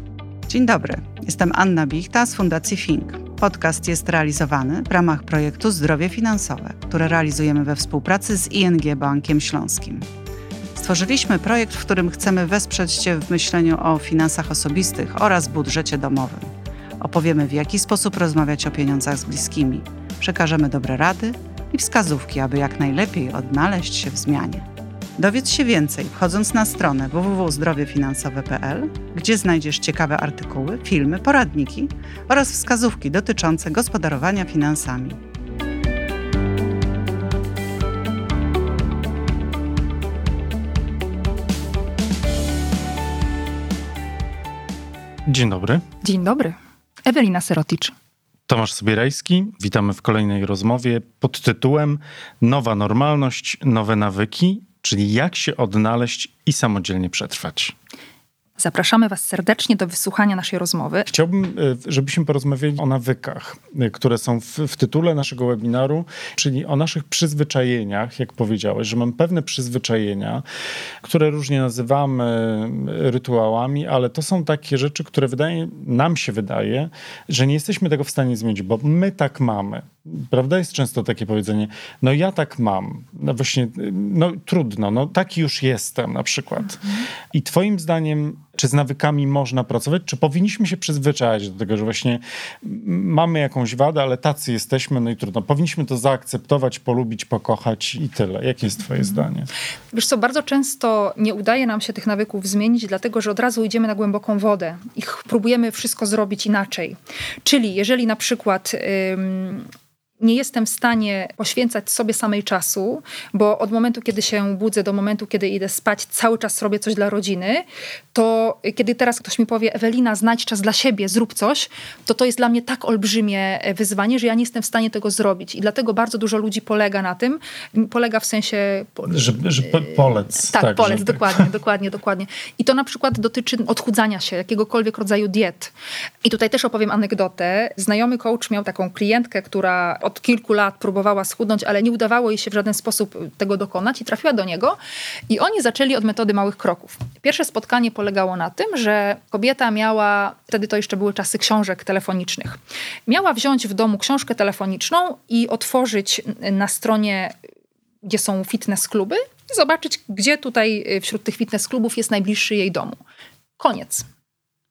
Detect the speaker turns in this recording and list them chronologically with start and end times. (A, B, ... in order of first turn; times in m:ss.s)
0:00.5-0:10.0 A
0:10.8-0:24.6 A
0:25.2-0:35.2 A
0:45.3-0:45.8 B
0:46.0-0:47.9 C
0:48.5-0:57.7 B
0:58.6-1:01.1 C
1:01.1-1:10.4 B
1:11.0-1:39.5 B
1:39.9-1:49.7 C
1:50.2-2:15.7 C
2:09.1-2:11.4 B
2:16.2-2:24.8 C
2:25.3-2:37.3 C
2:38.0-2:43.0 C
2:43.6-2:44.0 C